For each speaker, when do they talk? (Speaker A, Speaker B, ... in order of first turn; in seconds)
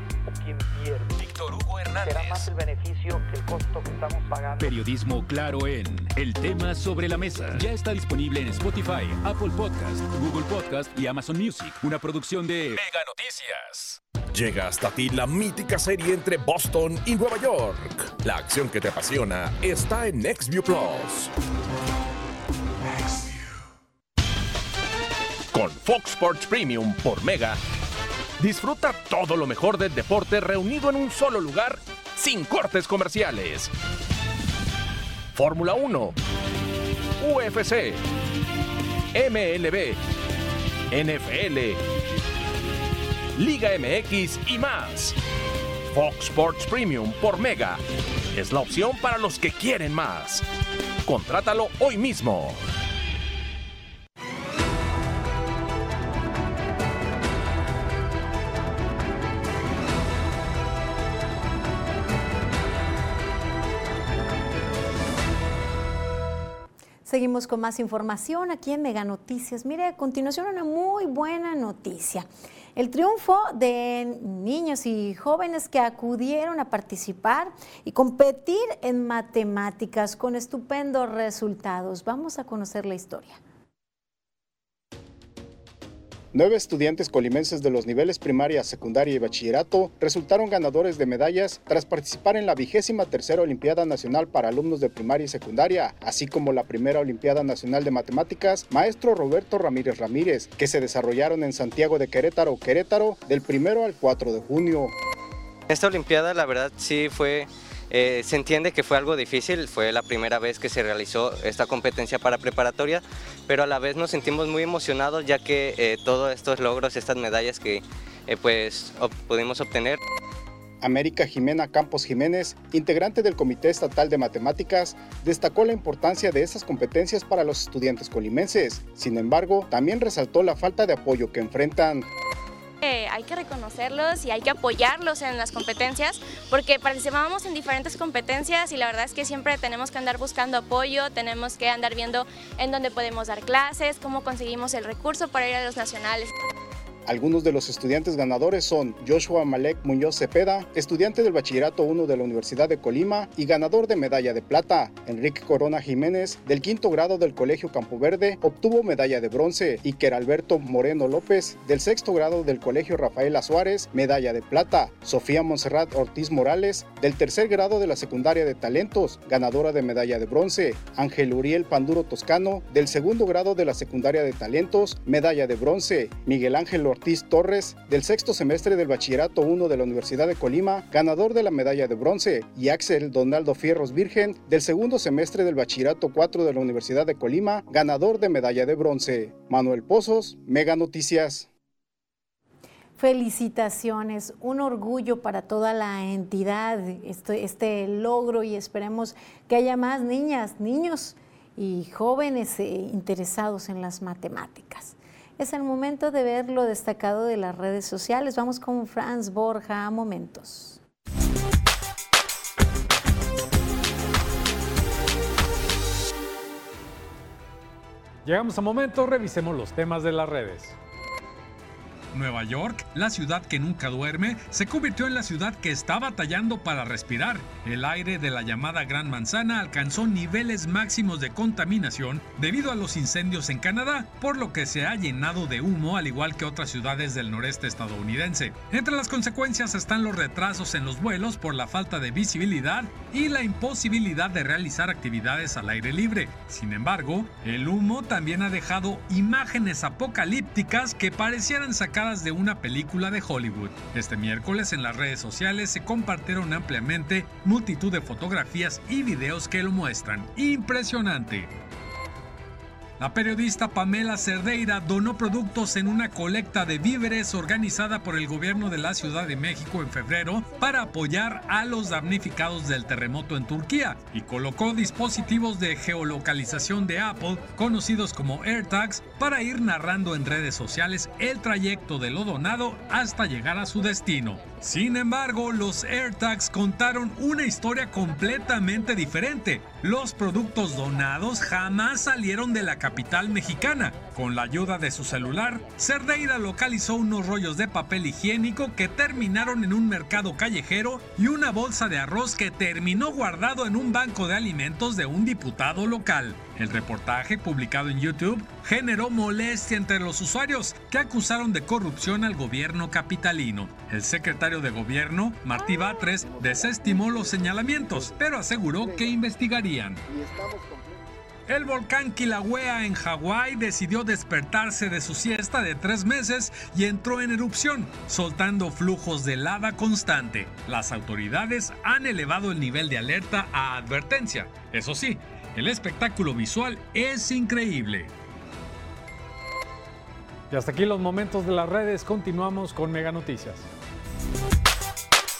Speaker A: 0.3-1.2, 2.0-4.7, 320.1-321.0
Speaker B: 1.2-2.5, 4.6-14.0
Speaker C: 14.3-21.3, 25.5-27.6, 28.4-33.7, 35.3-36.1, 37.2-38.0, 39.1-40.0, 40.9-41.8, 43.4-45.2, 45.9-47.8, 48.3-50.4, 51.0-52.6
Speaker D: 67.0-83.4, 193.0-210.8
Speaker E: 86.3-104.9, 120.8-132.1, 147.1-191.5
Speaker F: 105.7-120.0
Speaker G: 132.8-146.3
Speaker H: 218.2-220.7, 340.5-343.7
Speaker I: 222.1-261.5, 263.0-320.0, 321.5-338.1